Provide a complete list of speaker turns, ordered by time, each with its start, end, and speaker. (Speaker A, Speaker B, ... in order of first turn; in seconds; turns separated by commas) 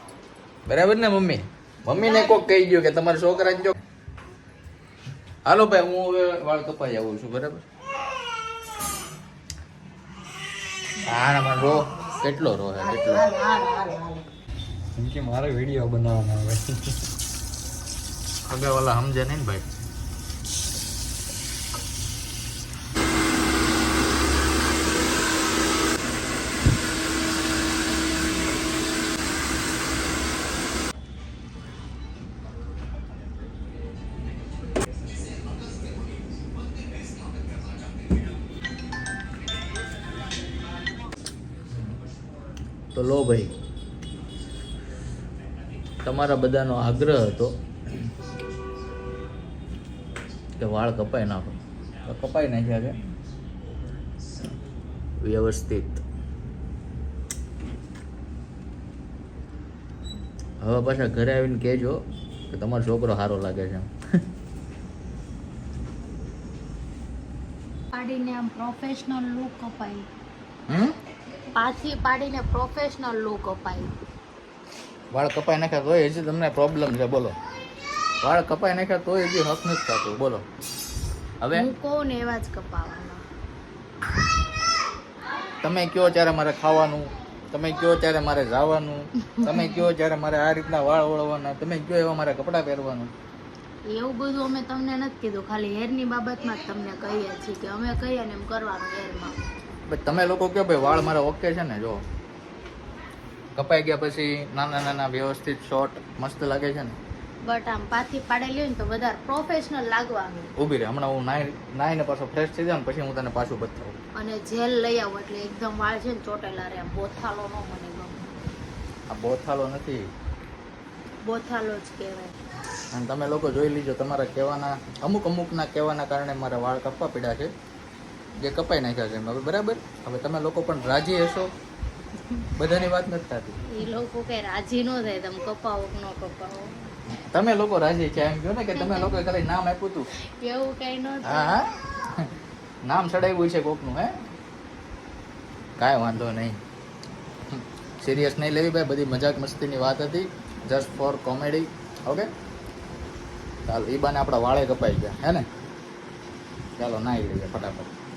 Speaker A: 0.7-3.8, Speaker B: 2.0-2.4, Speaker A: 5.4-7.6, Speaker A: 11.0-13.2, Speaker B: 12.8-14.2, Speaker C: 14.9-16.9, Speaker A: 18.5-19.6, Speaker A: 42.9-43.5, Speaker A: 46.0-47.5, Speaker A: 50.6-53.0, Speaker A: 55.2-56.0, Speaker A: 60.6-62.0, Speaker A: 62.5-63.9, Speaker B: 67.9-70.1, Speaker A: 70.7-70.9, Speaker B: 71.5-73.9, Speaker A: 75.1-77.3, Speaker A: 78.2-80.4, Speaker A: 81.4-81.7, Speaker B: 81.5-83.2, Speaker A: 85.6-93.1, Speaker B: 89.3-89.8, Speaker B: 93.9-99.3, Speaker A: 99.9-102.0, Speaker A: 103.5-107.0, Speaker B: 107.4-110.5, Speaker A: 110.6-114.0, Speaker B: 114.1-118.2, Speaker A: 119.1-120.1, Speaker B: 121.2-122.3, Speaker A: 122.9-127.5, Speaker A: 128.4-131.5, Speaker A: 132.6-133.6, Speaker B: 133.6-136.9, Speaker A: 137.2-140.1, Speaker B: 138.7-139.2, Speaker B: 140.4-141.6, Speaker A: 141.2-142.3, Speaker A: 142.8-144.1, Speaker A: 145.8-146.6, Speaker A: 147.5-152.3, Speaker A: 153.7-155.4, Speaker A: 156.8-157.9